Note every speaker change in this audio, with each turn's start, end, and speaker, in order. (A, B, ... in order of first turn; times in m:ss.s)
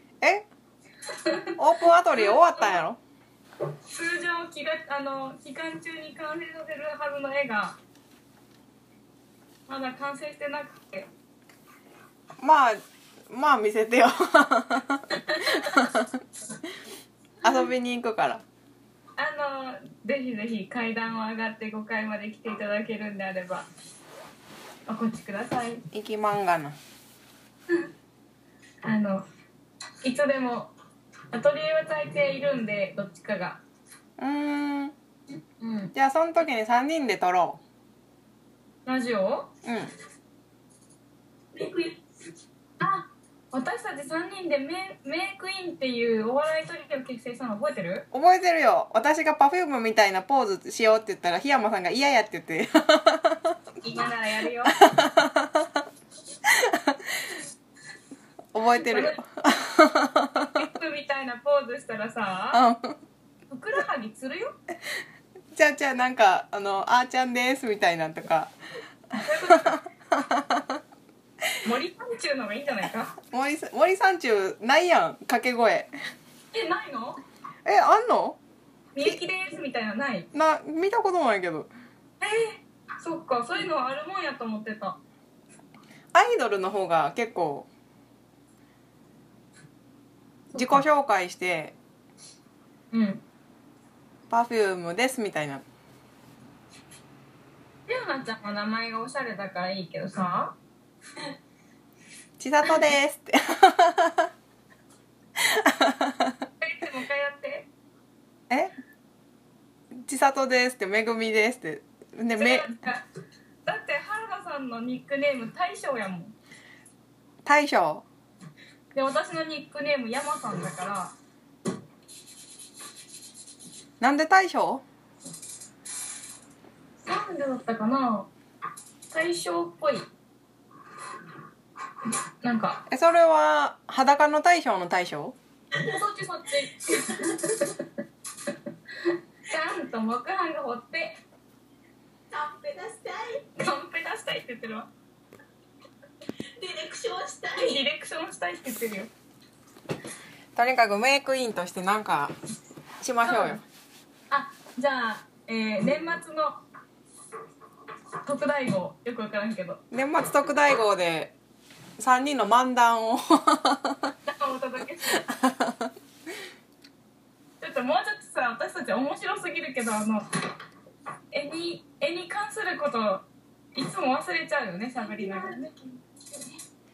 0:01.1-0:01.5 A
0:01.6-0:03.0 B
0:02.2-0:02.8 A
0:03.9-0:07.8 A
0:09.7-0:11.1 A
0:12.4-0:16.1 B
0:15.2-0:15.9 A
0:17.4-0:18.4 B
0:19.2-0:23.7 A
0:24.9-0:25.8 A
0:25.9-0:26.8 B
0:28.8-0:29.2 A
0:30.0-0:30.7 A
0:31.3-0:33.6 A
0:34.2-0:35.0 B
0:35.6-0:35.9 A
0:36.0-0:37.6 B
0:38.9-0:39.5 A
0:39.6-0:39.9 B
0:41.5-0:42.0 C
0:42.8-0:48.1 A
0:48.1-0:53.6 B
0:53.8-0:54.8 A
0:54.8-0:55.8 B
0:56.5-0:57.3 B
0:58.5-1:00.5 B
0:58.8-0:59.2 A
1:00.4-1:02.6 A
1:02.5-1:03.0 B
1:03.5-1:04.6 A
1:05.6-1:08.5 B
1:09.2-1:09.8 A
1:09.5-1:10.8 B
1:11.6-1:13.2 A
1:13.3-1:15.9 B
1:16.5-1:17.2 A
1:17.6-1:18.4 B
1:19.0-1:20.3 A
1:20.3-1:21.7 B
1:22.2-1:25.0 A
1:26.1-1:27.7 B
1:30.5-1:30.9 A
1:30.6-1:31.8 B
1:32.9-1:33.2 A
1:34.3-1:35.6 B
1:37.9-1:40.6 A
1:42.4-1:44.3 B
1:45.4-1:46.3 B
1:46.6-1:47.7 A
1:50.0-1:52.7 B
1:52.4-1:53.0 A
1:53.7-1:56.3 A
1:57.4-1:58.0 B
1:58.9-2:01.1 A
2:04.0-2:04.8 B
2:07.0-2:08.3 A
2:09.1-2:10.1 A
2:12.4-2:12.8 A
2:12.9-2:15.4 B
2:15.8-2:17.9 A
2:19.0-2:21.2 A
2:22.3-2:23.5 C
2:23.6-2:24.9 A
2:26.6-2:27.8 C
2:27.6-2:29.1 A
2:30.6-2:32.4 B
2:33.0-2:33.6 B
2:33.2-2:33.6 A
2:34.3-2:36.6 A
2:38.2-2:39.8 A
2:39.9-2:41.3 B
2:42.0-2:44.1 B
2:44.3-2:45.2 A
2:45.1-2:45.9 B
2:47.6-2:50.3 A
2:51.3-2:55.8 A